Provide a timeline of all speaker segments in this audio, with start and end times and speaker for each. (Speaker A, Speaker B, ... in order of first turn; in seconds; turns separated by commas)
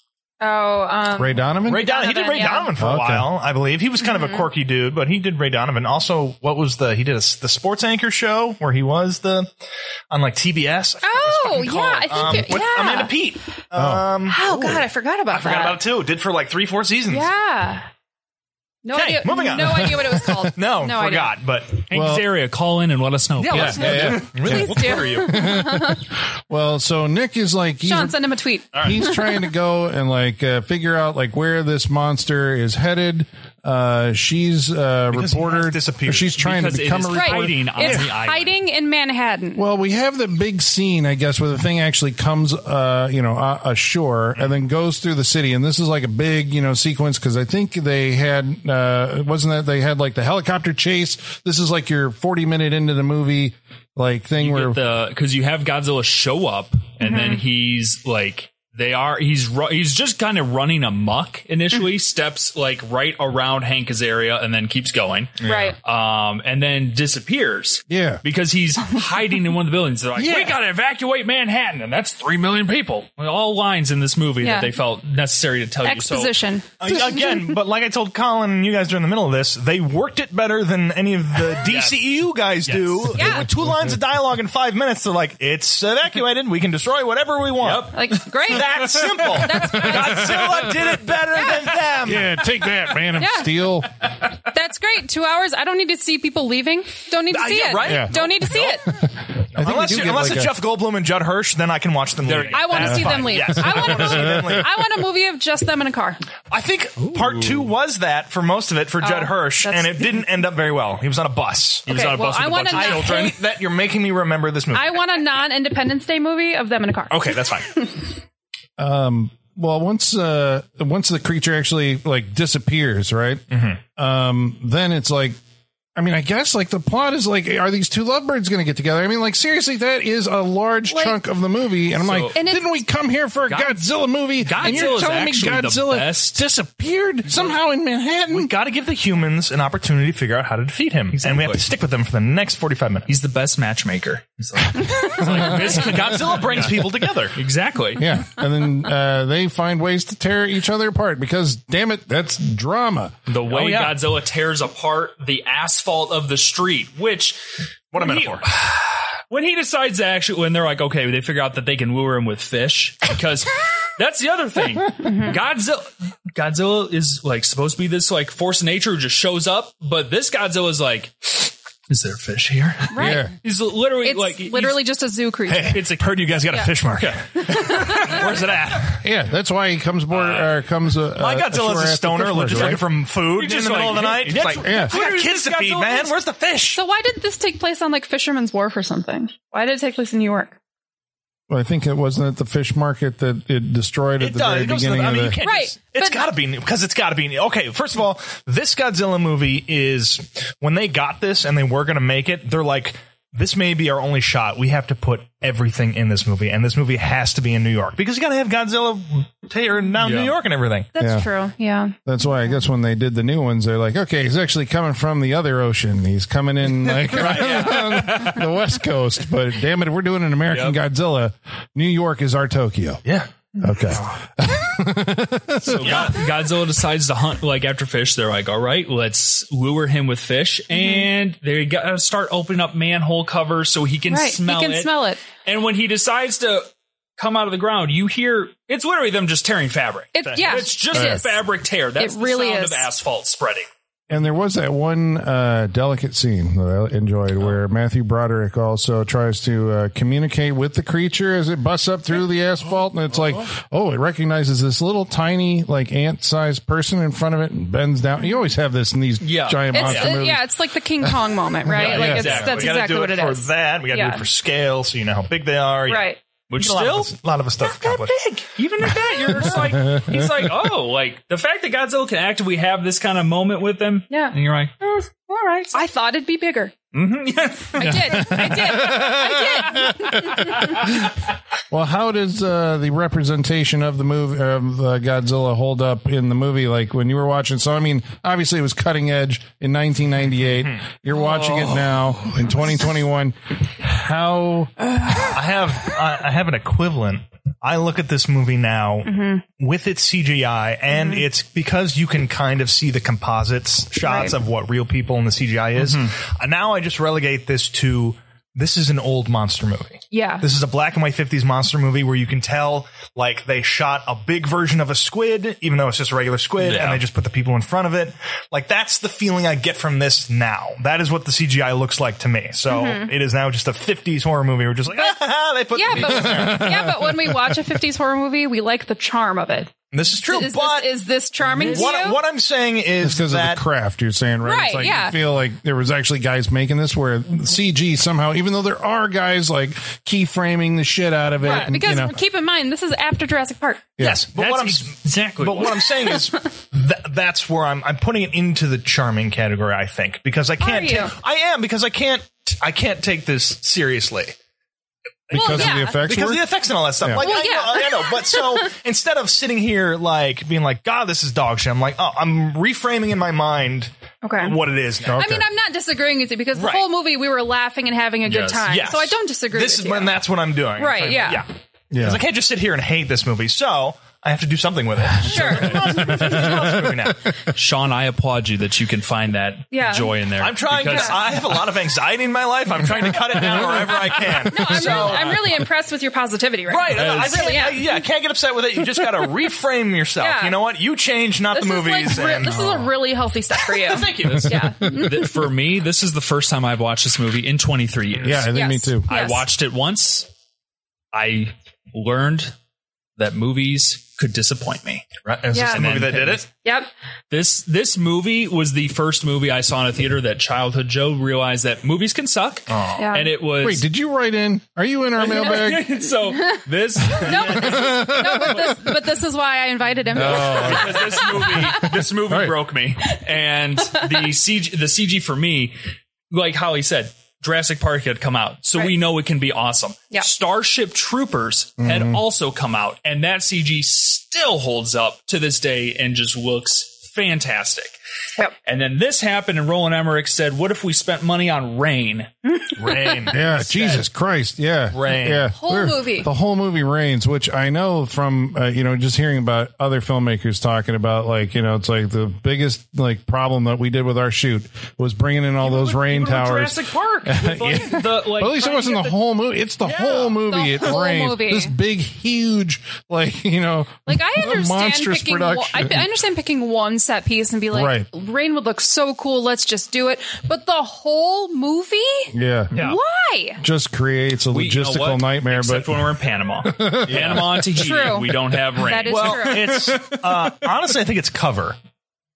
Speaker A: 0.4-2.7, Speaker B: 1.1-1.9, Speaker C: 1.7-9.5, Speaker B: 2.8-3.3, Speaker A: 4.0-4.5, Speaker C: 10.1-14.4, Speaker A: 11.0-13.1, Speaker B: 13.8-14.8, Speaker A: 14.3-15.8, Speaker C: 15.3-17.3, Speaker A: 17.1-17.9, Speaker A: 18.8-21.4, Speaker C: 18.9-21.8, Speaker B: 19.7-20.1, Speaker D: 21.9-24.3, Speaker B: 21.9-22.3, Speaker C: 23.4-25.5, Speaker B: 23.5-28.2, Speaker A: 24.4-26.1, Speaker A: 27.8-29.5, Speaker C: 28.7-29.0, Speaker B: 28.8-38.1, Speaker C: 35.1-36.4, Speaker D: 36.4-38.5, Speaker A: 37.1-39.6, Speaker B: 39.6-54.8, Speaker D: 54.4-76.3, Speaker A: 57.0-57.4, Speaker A: 65.4-65.8, Speaker C: 65.4-65.7, Speaker B: 67.9-68.2, Speaker B: 70.2-70.5, Speaker A: 74.4-74.7, Speaker A: 75.8-77.5, Speaker C: 76.8-92.4, Speaker D: 81.6-83.4, Speaker A: 83.1-83.5, Speaker D: 87.6-88.2, Speaker A: 87.9-90.4, Speaker D: 88.9-89.7, Speaker B: 90.0-90.7, Speaker B: 92.0-93.9, Speaker A: 93.2-93.5, Speaker A: 94.5-98.9, Speaker C: 97.3-98.8, Speaker B: 97.8-98.1, Speaker B: 98.9-100.5, Speaker C: 99.5-104.8, Speaker D: 102.2-103.3, Speaker A: 102.5-106.2, Speaker B: 102.8-104.7, Speaker C: 106.5-111.9, Speaker D: 107.0-107.7, Speaker A: 109.0-110.0, Speaker D: 111.9-113.4, Speaker A: 111.9-113.4, Speaker C: 112.7-115.0, Speaker A: 114.7-117.1, Speaker C: 117.1-117.9, Speaker B: 118.8-123.4, Speaker C: 123.5-123.8, Speaker B: 124.0-125.4, Speaker B: 126.0-138.5, Speaker A: 130.9-131.2, Speaker D: 132.0-132.4, Speaker A: 132.3-132.8, Speaker D: 133.5-133.8, Speaker D: 134.4-136.4, Speaker C: 138.3-143.1, Speaker D: 141.1-141.7, Speaker D: 143.1-148.1, Speaker B: 145.2-145.8, Speaker C: 145.2-147.4, Speaker B: 148.0-153.2, Speaker D: 153.3-157.4, Speaker C: 153.5-153.9, Speaker C: 157.9-158.5, Speaker D: 157.9-174.8, Speaker A: 165.0-165.4, Speaker A: 172.9-173.3, Speaker B: 173.0-173.3, Speaker A: 174.0-175.8, Speaker C: 175.5-179.0, Speaker D: 175.6-176.4, Speaker D: 177.0-178.6, Speaker A: 177.3-178.3, Speaker B: 179.0-182.8, Speaker C: 180.2-180.5, Speaker C: 181.1-186.8, Speaker D: 182.5-186.1, Speaker B: 184.6-184.9, Speaker A: 186.8-190.6, Speaker B: 191.5-195.4, Speaker C: 194.2-210.9, Speaker A: 195.4-196.3, Speaker D: 210.0-210.3, Speaker A: 210.9-212.6, Speaker B: 211.0-211.3, Speaker B: 212.1-223.0, Speaker D: 217.0-218.4, Speaker C: 217.1-217.9, Speaker D: 220.5-220.8, Speaker C: 223.1-223.3, Speaker B: 223.6-226.1, Speaker D: 225.6-243.7, Speaker C: 225.8-226.2, Speaker A: 230.7-231.1, Speaker A: 234.1-235.2, Speaker A: 240.1-241.4, Speaker C: 240.2-240.7, Speaker B: 240.9-241.2, Speaker A: 242.0-242.9, Speaker B: 244.1-260.5, Speaker D: 259.2-260.2, Speaker A: 259.7-264.2, Speaker B: 261.0-262.4, Speaker D: 261.7-262.9, Speaker C: 261.7-268.2, Speaker A: 265.9-266.2, Speaker D: 266.5-274.7, Speaker B: 269.1-270.5, Speaker A: 274.1-276.8, Speaker D: 276.9-278.6, Speaker A: 277.7-280.9, Speaker B: 277.8-281.1, Speaker D: 280.4-281.0, Speaker B: 281.7-294.7, Speaker D: 291.1-292.3, Speaker C: 295.3-326.7, Speaker A: 299.1-299.4, Speaker A: 300.9-301.2, Speaker A: 304.0-304.4, Speaker D: 305.8-306.1, Speaker A: 310.1-310.5, Speaker D: 316.6-317.0, Speaker A: 322.7-323.1, Speaker A: 325.7-329.7, Speaker B: 325.9-327.6, Speaker C: 329.9-331.0, Speaker A: 330.3-332.2, Speaker D: 331.5-331.9, Speaker C: 331.6-333.6, Speaker B: 333.0-342.1, Speaker A: 334.4-335.2, Speaker A: 341.4-343.9, Speaker B: 344.0-344.2, Speaker C: 344.0-354.3, Speaker D: 344.3-346.0, Speaker A: 350.6-351.1, Speaker B: 355.3-356.4, Speaker C: 355.3-365.2, Speaker A: 355.3-356.0, Speaker B: 357.0-357.3, Speaker A: 357.2-358.7, Speaker A: 364.2-364.6, Speaker B: 365.0-365.4, Speaker A: 365.2-370.1, Speaker C: 366.6-366.9, Speaker D: 368.3-368.7, Speaker C: 368.6-377.3, Speaker A: 370.8-371.4, Speaker B: 371.9-372.2, Speaker A: 375.2-376.5, Speaker D: 375.4-376.1, Speaker B: 375.9-377.1, Speaker D: 377.5-381.5, Speaker A: 379.7-380.1, Speaker C: 380.4-385.5, Speaker A: 380.8-381.2, Speaker A: 384.4-387.8, Speaker D: 384.5-385.5, Speaker C: 386.7-392.9, Speaker D: 386.9-387.7, Speaker A: 390.2-390.6, Speaker A: 391.5-395.3, Speaker C: 393.6-394.5, Speaker D: 393.9-398.5, Speaker B: 394.2-395.2, Speaker B: 398.2-399.1, Speaker A: 398.5-399.4, Speaker D: 399.1-400.3, Speaker D: 401.1-402.5, Speaker D: 403.2-406.5, Speaker C: 405.2-406.5, Speaker A: 405.5-405.9, Speaker A: 406.6-406.9, Speaker D: 407.3-413.8, Speaker C: 412.7-413.1, Speaker A: 413.0-413.3, Speaker B: 413.6-415.9, Speaker D: 415.2-418.0, Speaker A: 416.3-421.9, Speaker B: 417.1-418.9, Speaker B: 420.1-421.1, Speaker D: 420.2-425.8, Speaker B: 421.8-422.6, Speaker D: 426.3-438.0, Speaker B: 431.8-432.2, Speaker D: 438.6-442.3, Speaker A: 442.5-443.1, Speaker C: 442.8-443.4, Speaker B: 443.3-466.1, Speaker D: 443.3-444.0, Speaker C: 444.9-445.4, Speaker A: 445.5-446.3, Speaker D: 455.6-459.2, Speaker D: 459.8-460.4, Speaker A: 460.4-461.7, Speaker A: 464.1-473.6, Speaker B: 467.7-468.1, Speaker B: 472.3-472.7, Speaker D: 472.7-473.0, Speaker B: 473.6-476.1, Speaker D: 474.5-479.7, Speaker B: 476.6-477.7, Speaker C: 477.1-477.5, Speaker A: 477.8-479.8, Speaker C: 479.1-481.8